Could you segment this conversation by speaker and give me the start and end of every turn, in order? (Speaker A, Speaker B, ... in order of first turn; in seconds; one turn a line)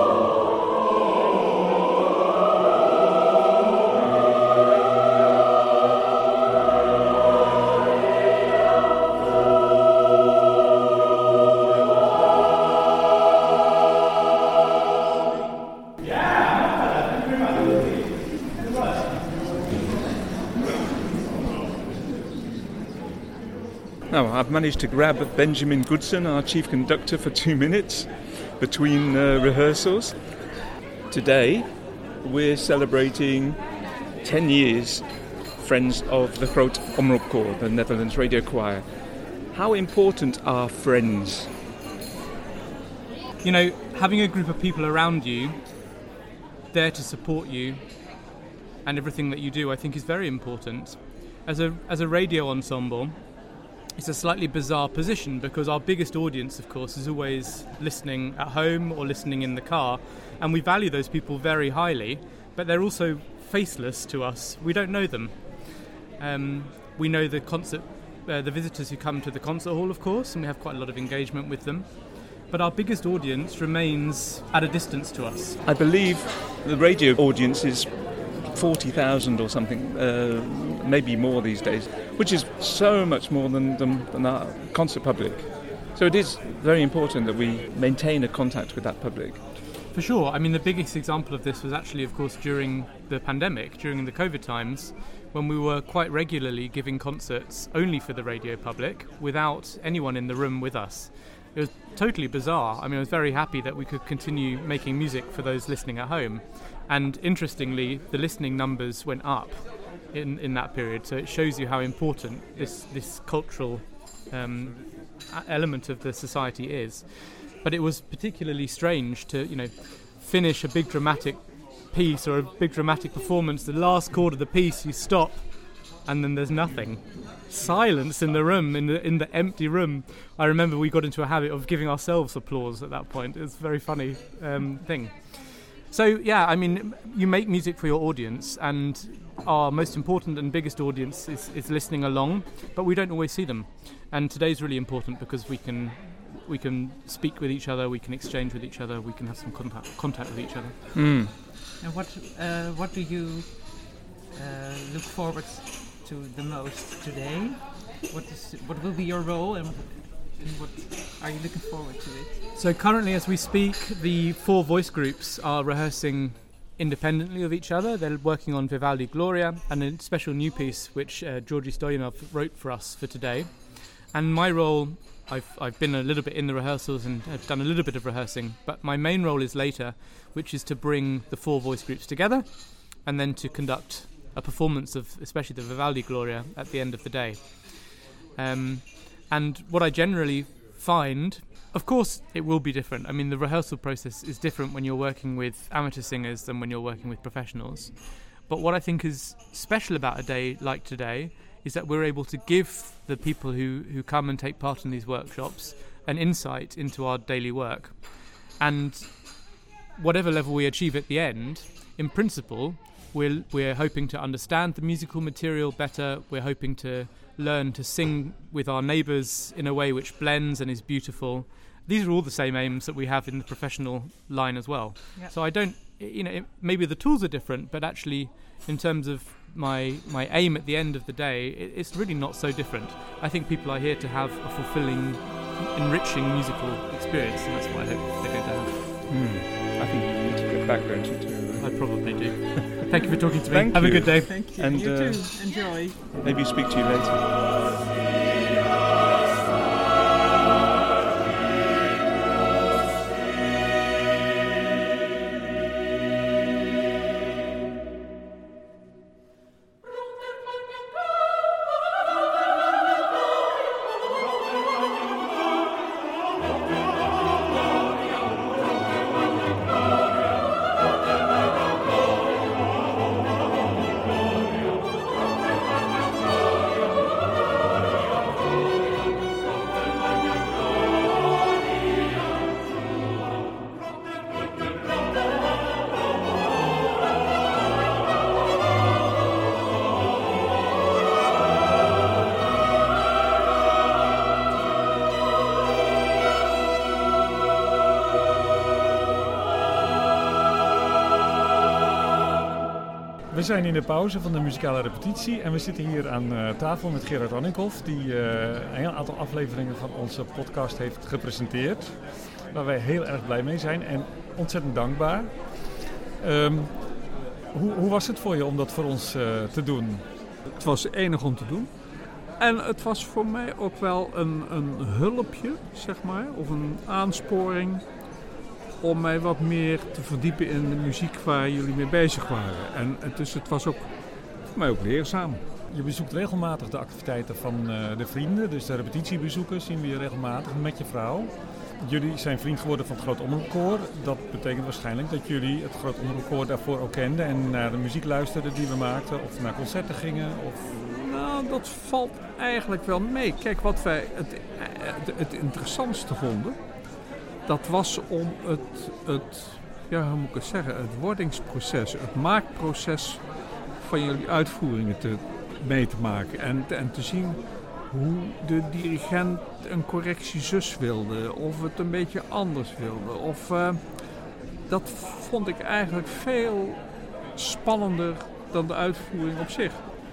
Speaker A: 24.1-30.6
Speaker A: 31.1-41.5
Speaker B: 43.4-46.0
Speaker B: 46.7-48.3
Speaker B: 48.8-75.6
Speaker A: 75.6-89.4
Speaker B: 89.9-150.8
Speaker A: 150.9-151.3
Speaker C: 151.8-162.4
Speaker B: 162.5-238.9
Speaker A: 239.1-242.8
Speaker B: 241.6-244.3
Speaker C: 242.9-246.0
Speaker A: 243.5-245.3
Speaker A: 246.1-247.3
Speaker D: 303.3-320.1
Speaker E: 320.4-327.9
Speaker E: 328.8-335.4
Speaker D: 335.7-350.6
Speaker E: 350.6-356.7
Speaker E: 357.4-379.9